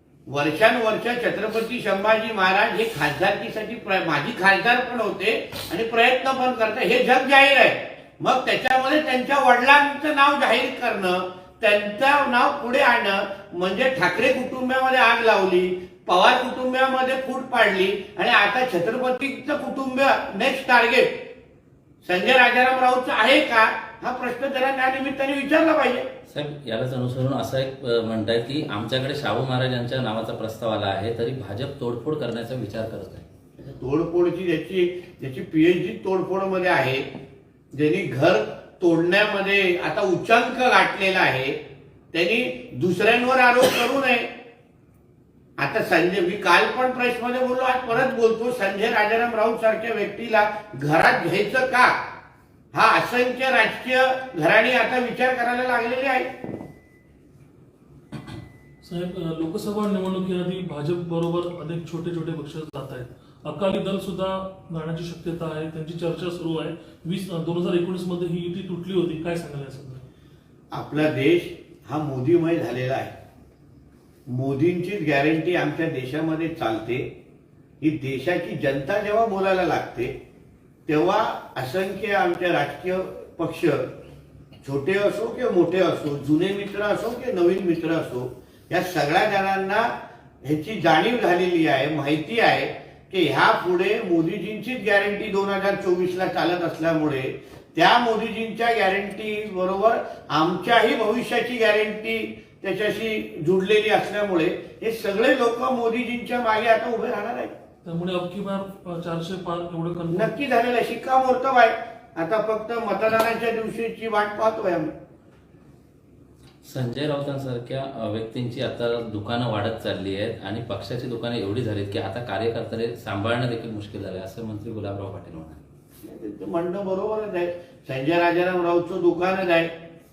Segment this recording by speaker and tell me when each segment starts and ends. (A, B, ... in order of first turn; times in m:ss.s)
0:00.3-0:21.3 A
0:22.0-0:26.1 A
0:26.3-0:33.2 B
0:33.6-0:37.0 A
0:37.7-0:41.6 A
0:42.1-0:44.3 A
0:45.6-0:51.9 A
0:52.7-0:56.3 A
0:58.8-1:10.0 C
1:10.7-1:13.1 A
1:14.3-1:17.1 A
1:17.8-1:20.1 A
1:20.9-1:23.9 A
1:24.6-1:29.9 A
1:30.4-1:47.5 A
1:47.8-1:50.3 C
1:50.1-1:54.9 A
1:56.6-2:05.6 B
2:06.0-2:09.7 A